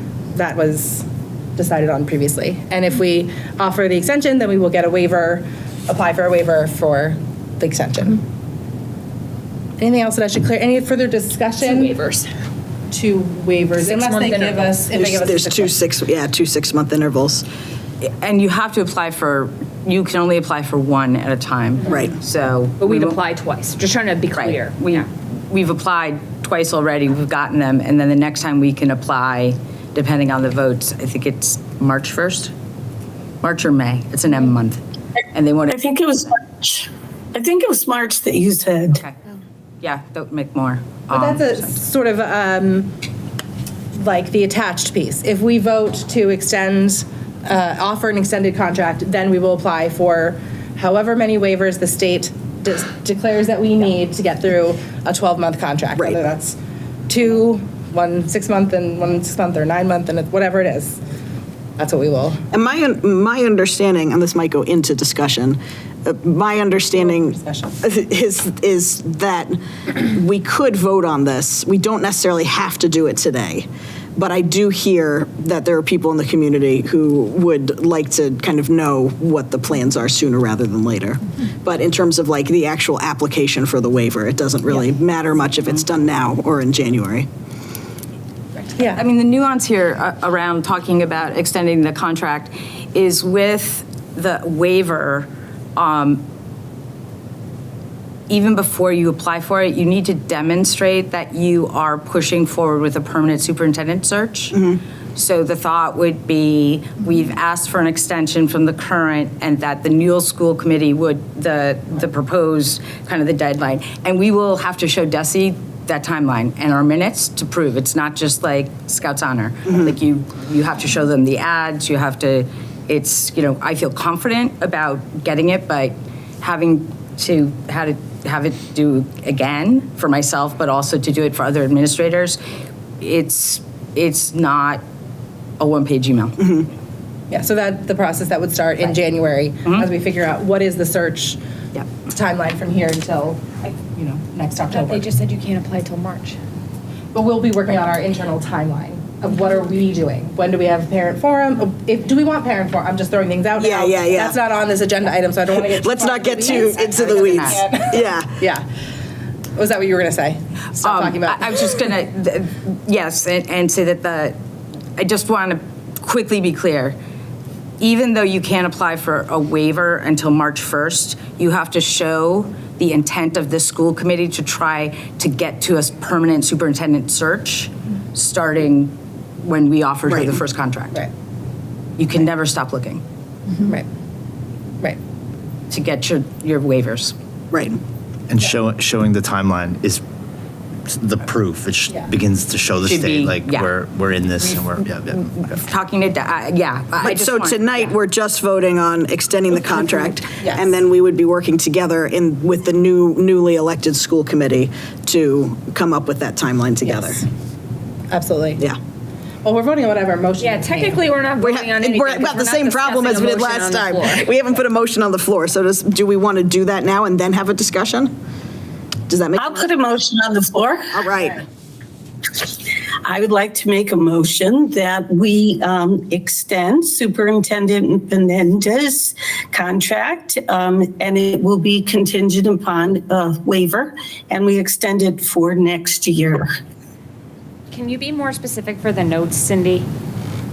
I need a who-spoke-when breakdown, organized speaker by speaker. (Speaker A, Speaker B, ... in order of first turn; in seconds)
Speaker A: 0.3-8.2, 9.8-12.0, 12.9-15.8, 41.1-42.9, 43.9-61.0, 61.8-62.4, 67.0-67.8, 137.3-141.4, 142.0-145.1, 147.1-158.7, 159.6-161.7, 200.4-200.7, 206.8-207.2, 208.1-208.6, 209.4-211.1
Speaker B: 11.6-12.3, 13.8-14.8, 22.8-25.0, 144.7-146.4, 210.4-214.3, 237.7-239.9
Speaker C: 14.9-17.5, 21.9-22.2, 62.5-87.3, 153.6-154.4, 155.7-158.3, 180.1-180.4, 187.5-187.8, 197.0-207.2, 211.4-218.1, 219.1-219.7, 220.9-221.4
Speaker D: 18.0-23.2, 24.3-32.5, 33.4-34.8, 35.3-35.8, 39.8-41.7, 88.8-96.2, 98.3-132.4, 133.0-134.8, 135.6-136.6, 156.9-157.6, 160.8-164.3, 165.0-167.0, 167.8-181.0, 182.0-183.0, 185.7-187.1, 192.8-193.7, 195.3-198.0
Speaker E: 35.7-39.0, 219.3-221.1, 223.0-236.5
Speaker F: 188.3-190.0, 190.9-195.6